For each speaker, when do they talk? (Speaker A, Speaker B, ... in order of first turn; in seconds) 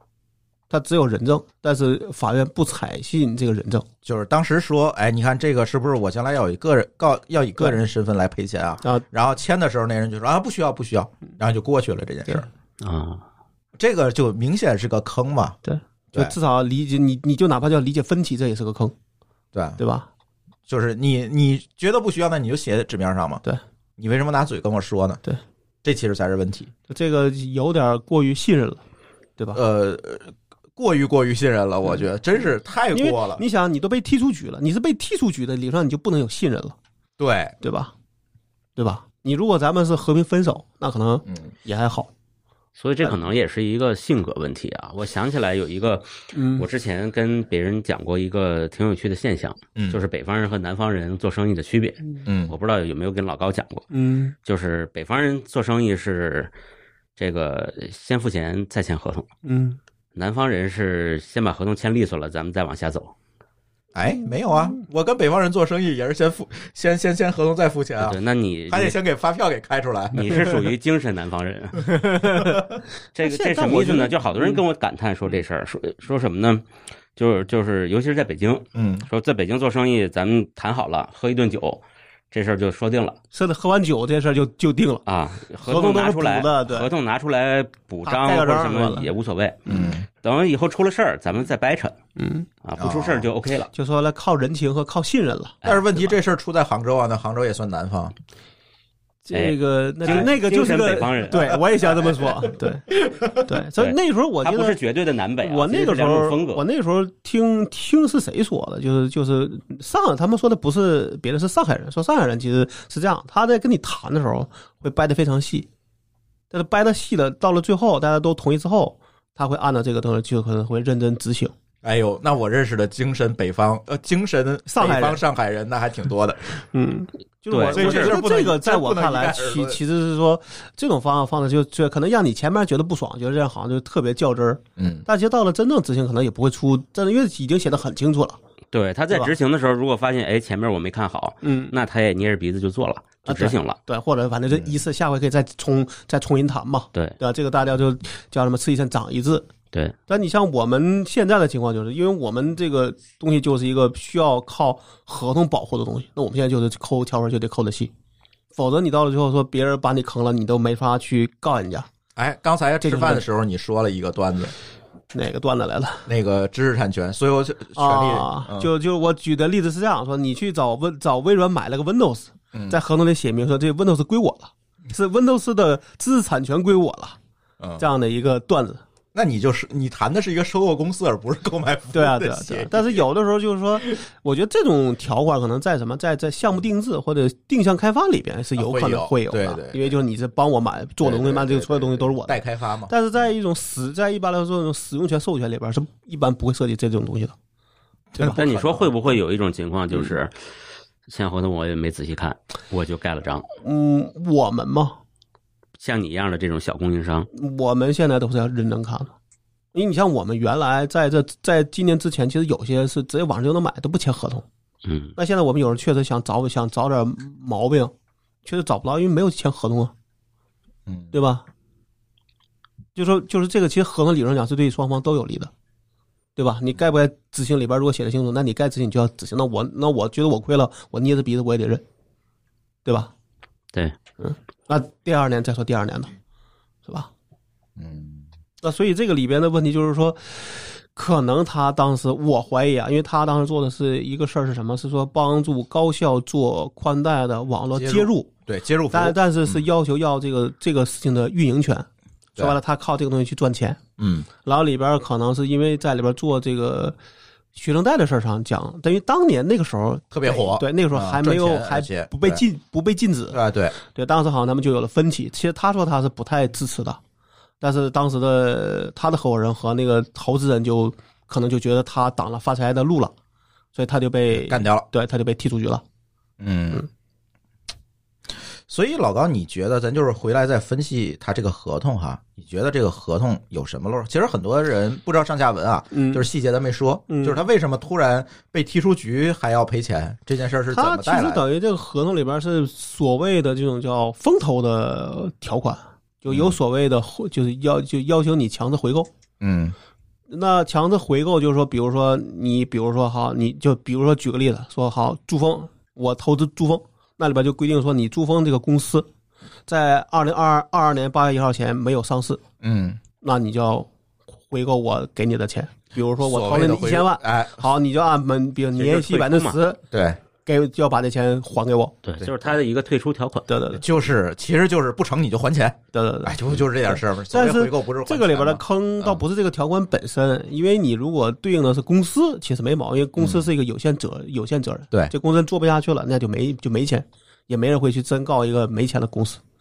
Speaker A: 0.7-3.9, 15.7-18.9, 19.8-20.1, 26.9-28.8, 32.9-36.8, 37.6-37.9, 38.8-42.1, 46.3-46.6, 53.9-54.4, 59.4-59.8, 72.1-72.6, 73.2-74.6, 83.3-85.0, 85.6-86.9, 88.0-89.1, 92.2-92.5, 93.7-95.6, 99.2-102.9, 103.4-104.8, 105.4-115.7, 116.5-121.5, 124.7-125.2, 126.7-138.4, 141.4-141.8, 143.3-149.5, 150.1-157.9, 158.5-161.9, 162.8-163.2, 165.1-166.1, 167.8-177.2, 177.8-178.8, 181.9-197.3, 203.6-205.0, 207.3-209.1, 209.7-214.4, 215.2-217.9, 218.4-219.9, 221.1-221.4, 222.9-225.5, 226.4-231.8, 232.8-233.1, 234.2-236.1, 238.6-248.3, 248.9-253.8, 254.4-257.0, 257.6-267.0, 267.6-273.1, 273.8-275.8, 285.9-286.3, 287.1-287.4, 290.7-299.1, 300.3-309.1, 309.7-312.4, 313.2-313.9, 314.5-319.8, 320.4-321.9, 323.5-323.8, 325.9-339.4
Speaker B: 4.0-12.5, 13.8-15.6, 19.5-19.8, 20.7-23.4, 24.0-25.2, 25.8-26.7, 29.5-33.4, 37.2-37.6, 52.2-52.5, 63.9-68.2, 68.7-70.5, 78.8-79.1, 89.7-90.0, 92.8-93.3, 95.6-98.2, 101.5-102.3, 103.0-103.4, 121.8-126.6, 127.7-129.8, 134.8-135.1, 162.2-164.5, 166.1-168.7, 179.1-183.0, 188.6-189.9, 191.0-192.9, 198.1-198.9, 220.9-221.1, 237.8-238.2, 247.7-249.7, 254.0-254.3, 260.1-262.4, 263.3-263.8, 274.3-274.9, 276.4-276.9, 278.7-291.4, 296.3-296.6, 299.4-299.8, 312.6-313.0, 316.2-317.7, 319.9-320.2, 323.7-329.2, 333.2-333.5
Speaker C: 12.8-13.2, 42.8-53.9, 54.5-56.5, 57.2-59.3, 60.1-63.1, 68.0-69.0, 70.2-72.0, 73.2-76.6, 77.2-83.2, 85.1-92.0, 92.6-93.7, 99.3-101.6, 103.8-106.6, 127.5-128.2, 138.7-143.8, 198.3-200.3, 201.1-203.5, 205.8-207.3, 214.8-215.1, 318.8-319.6, 322.0-323.5